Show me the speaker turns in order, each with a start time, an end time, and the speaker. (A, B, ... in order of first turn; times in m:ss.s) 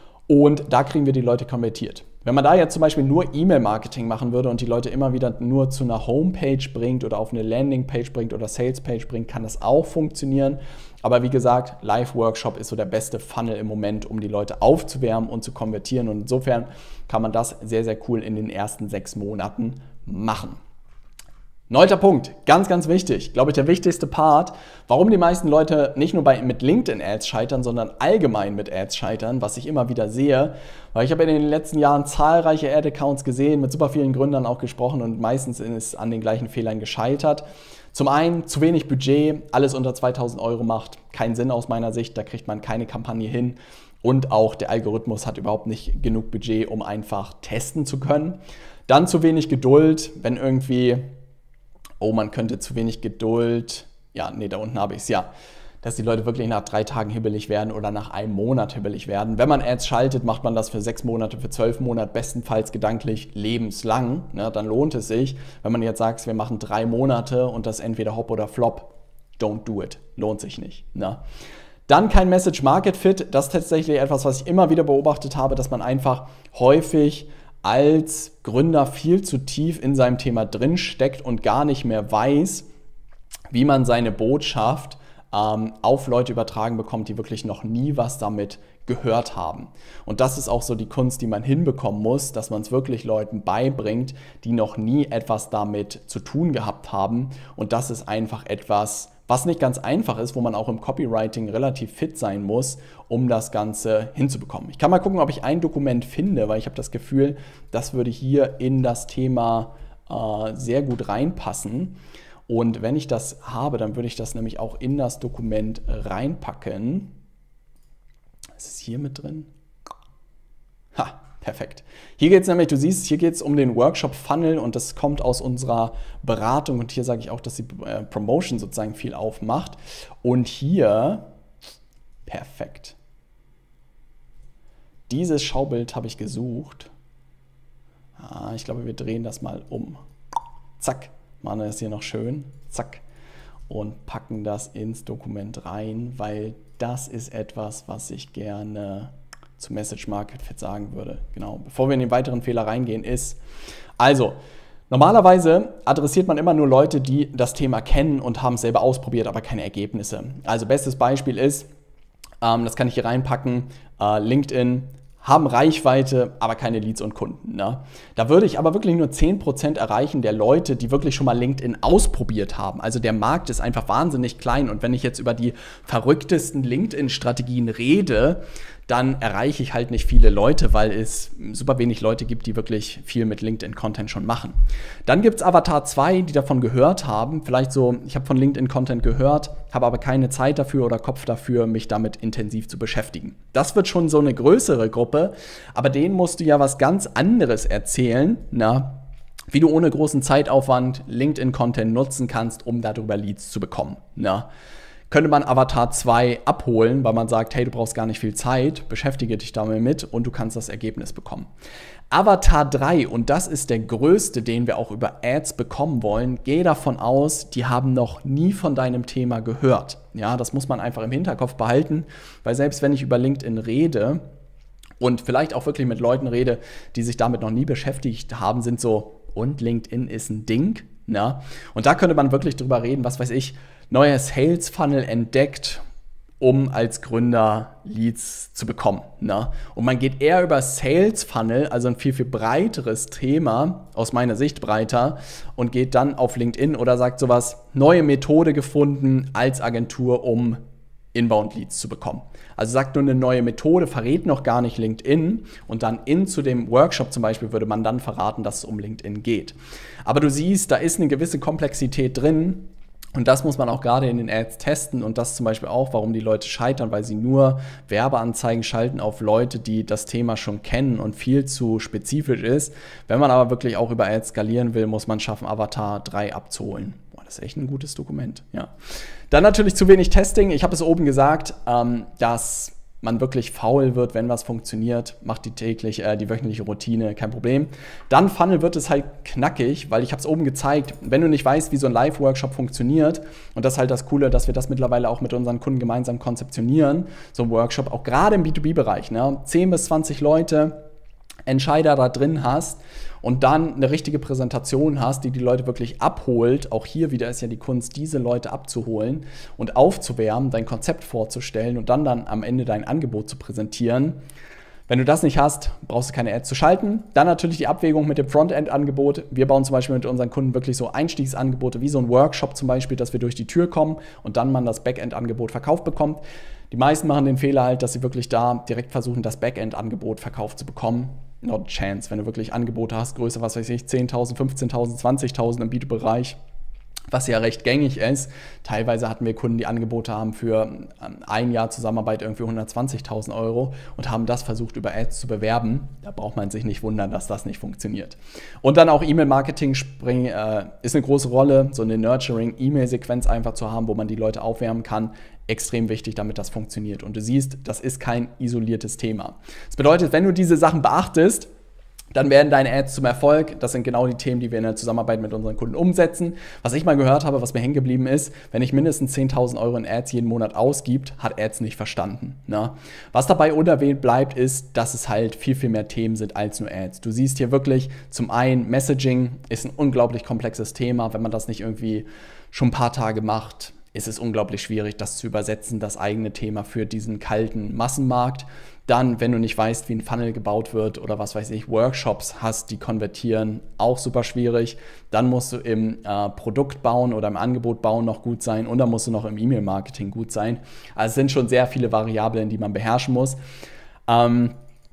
0:00.3-0:20.6 A
0:21.7-0:51.1 A
0:52.0-0:55.3 A
0:55.8-1:11.2 A
1:11.9-1:22.7 A
1:23.5-1:57.1 A
1:58.6-1:59.5 A
2:00.9-2:11.3 A
2:12.3-2:13.0 A
2:15.1-2:16.9 A
2:18.2-2:20.0 A
2:20.8-2:23.0 A
2:23.7-2:33.4 A
2:34.0-2:34.4 A
2:34.9-2:41.7 A
2:42.4-3:24.5 A
3:25.1-3:31.5 A
3:32.1-3:44.2 A
3:45.0-3:55.8 A
3:56.4-4:10.6 A
4:11.1-4:38.7 A
4:39.3-5:00.8 A
5:01.5-5:14.2 A
5:14.9-5:36.4 A
5:37.1-6:01.5 A
6:02.1-6:43.4 A
6:44.1-6:44.6 A